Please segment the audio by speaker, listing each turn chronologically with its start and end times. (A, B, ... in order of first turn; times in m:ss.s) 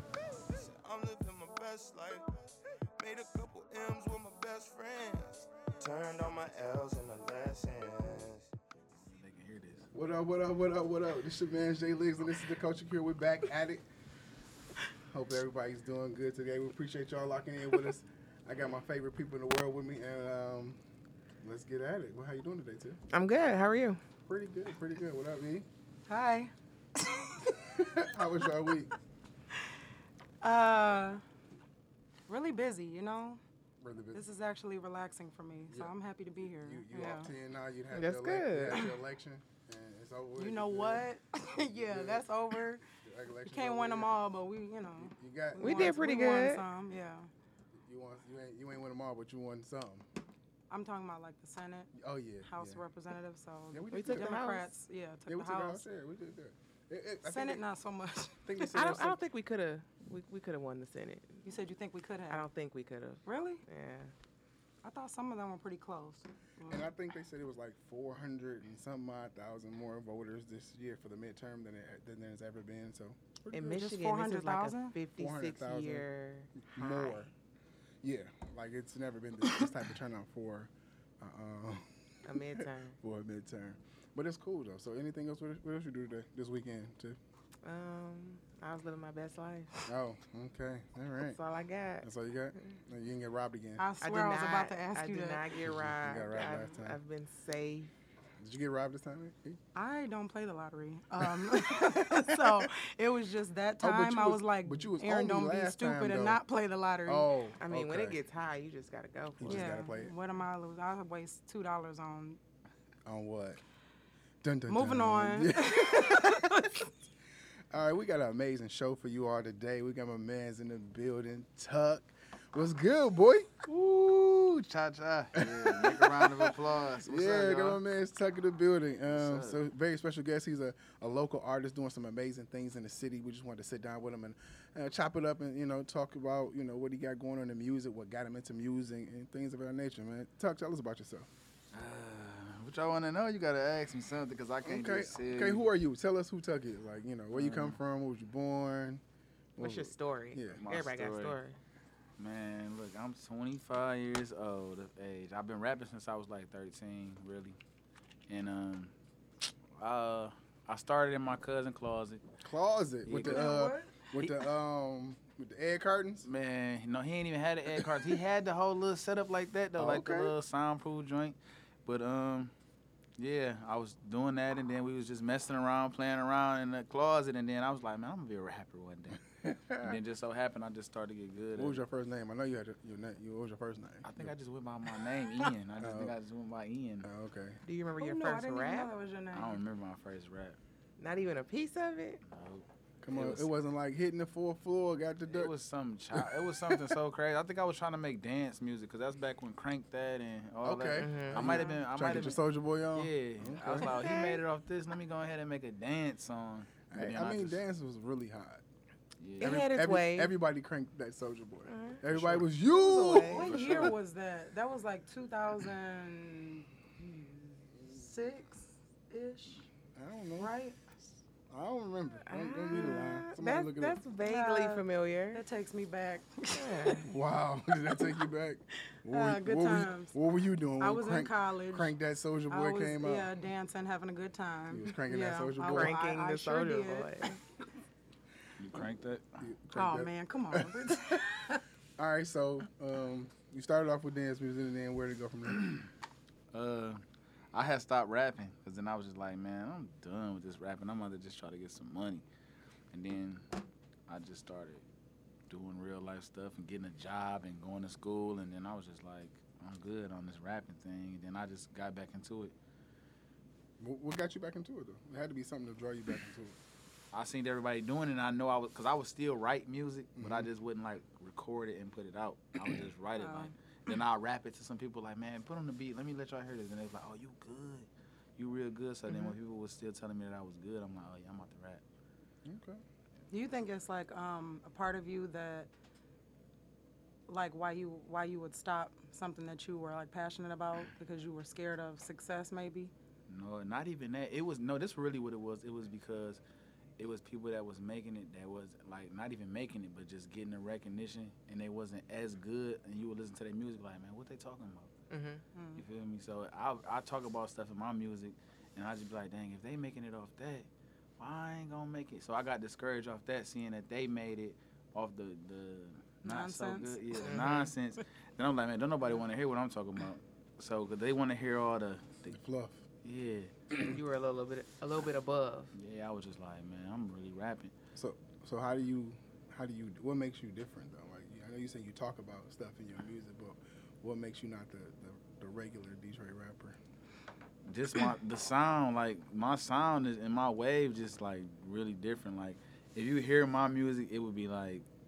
0:00.2-0:02.2 A
0:03.0-0:08.5 A
0:09.0-0:09.9 B
0:09.9-0:13.8 C
0:15.1-0:20.8 C
0:21.4-0:23.0 C
0:23.1-0:24.0 D
0:24.3-0:25.7 C
0:26.1-0:27.5 E
0:27.7-0:28.9 C
0:30.4-0:31.2 E
0:32.3-0:33.4 E
0:33.8-0:34.3 C
0:34.1-0:37.3 E
0:36.5-0:44.2 C
0:37.9-0:38.9 D
0:40.4-0:42.8 E
0:43.5-0:47.3 E
0:45.0-0:46.0 C
0:45.6-0:46.6 D
0:47.8-0:50.1 C
0:50.7-0:51.9 E
0:51.9-0:52.8 C
0:52.4-0:55.8 E
0:53.7-0:54.5 C
0:53.9-0:54.7 D
0:55.3-0:57.6 C
0:57.2-0:59.0 E
0:58.4-0:59.2 C
0:58.7-1:01.4 D
1:01.4-1:02.5 E
1:02.3-1:04.1 D
1:03.2-1:03.6 E
1:04.8-1:06.9 E
1:06.7-1:13.8 C
1:13.5-1:17.2 D
1:13.6-1:15.0 E
1:15.2-1:17.3 C
1:18.0-1:27.2 C
1:22.2-1:23.0 D
1:27.6-1:29.7 D
1:29.9-1:31.4 C
1:31.2-1:32.8 D
1:32.0-1:33.9 C
1:33.8-1:35.5 E
1:34.0-1:37.9 D
1:35.6-1:37.0 C
1:38.4-1:39.6 C
1:39.8-1:47.3 E
1:41.2-1:42.7 C
1:43.8-1:46.4 C
1:47.1-1:48.2 C
1:47.6-1:50.1 D
1:49.4-1:50.1 C
1:49.5-1:52.4 E
1:53.0-1:53.6 C
1:54.4-1:56.7 C
1:54.7-1:56.9 E
1:57.7-2:03.7 C
2:03.7-2:07.8 B
2:05.4-2:06.5 C
2:07.0-2:21.3 C
2:09.1-2:09.6 B
2:21.7-2:25.6 B
2:24.6-2:29.0 C
2:27.3-2:27.8 B
2:29.6-2:30.6 C
2:29.6-2:31.6 D
2:30.6-2:31.4 B
2:32.2-2:37.6 B
2:38.3-2:38.9 B
2:39.8-2:42.2 B
2:42.4-2:46.3 C
2:43.1-2:43.6 B
2:43.1-2:44.0 E
2:46.2-2:52.5 B
2:47.7-2:48.1 C
2:49.8-2:50.3 C
2:53.2-2:59.2 B
2:59.4-3:00.0 C
2:59.8-3:01.8 B
3:01.6-3:04.3 C
3:04.0-3:07.1 B
3:05.8-3:06.1 C
3:07.0-3:07.6 C
3:07.6-3:08.9 D
3:08.0-3:09.6 E
3:09.3-3:10.6 B
3:11.0-3:12.2 D
3:12.3-3:13.5 B
3:13.0-3:15.5 C
3:15.3-3:22.4 B
3:16.1-3:17.0 C
3:20.6-3:24.0 C
3:21.0-3:21.7 D
3:22.9-3:27.6 B
3:23.7-3:24.4 D
3:26.9-3:28.6 C
3:29.2-3:29.7 B
3:29.4-3:30.3 D
3:29.4-3:34.0 C
3:31.7-3:33.9 D
3:32.1-3:32.4 B
3:33.1-3:39.6 E
3:40.0-3:40.5 C
3:40.4-3:40.8 E
3:41.5-3:44.0 C
3:42.3-3:45.4 D
3:44.2-3:47.1 E
3:46.5-3:47.1 D
3:47.1-3:53.3 C
3:49.1-3:50.2 E
3:50.8-3:51.9 E
3:52.5-3:57.3 E
3:54.7-3:56.0 C
3:55.7-3:57.4 D
3:58.6-3:59.4 B
3:59.4-4:01.2 C
3:59.7-4:01.6 E
4:02.0-4:05.7 C
4:05.6-4:05.8 B
4:06.5-4:07.0 B
4:07.5-4:12.2 B
4:12.9-4:13.4 B
4:14.1-4:14.8 B
4:15.5-4:22.5 B
4:23.8-4:26.6 C
4:27.1-4:41.8 B
4:30.2-4:30.5 C
4:33.2-4:33.5 E
4:42.4-4:42.8 C
4:43.3-4:45.7 E
4:47.3-4:52.9 E
4:53.3-4:56.4 B
4:57.0-5:04.9 B
5:05.1-5:05.4 D
5:05.6-5:05.8 E
5:05.8-5:10.7 B
5:11.2-5:22.4 B
5:16.2-5:17.3 E
5:17.2-5:17.7 D
5:22.3-5:22.8 C
5:23.0-5:23.5 B
5:23.8-5:25.7 D
5:25.8-5:27.8 B
5:28.0-5:36.8 C
5:37.7-5:44.8 B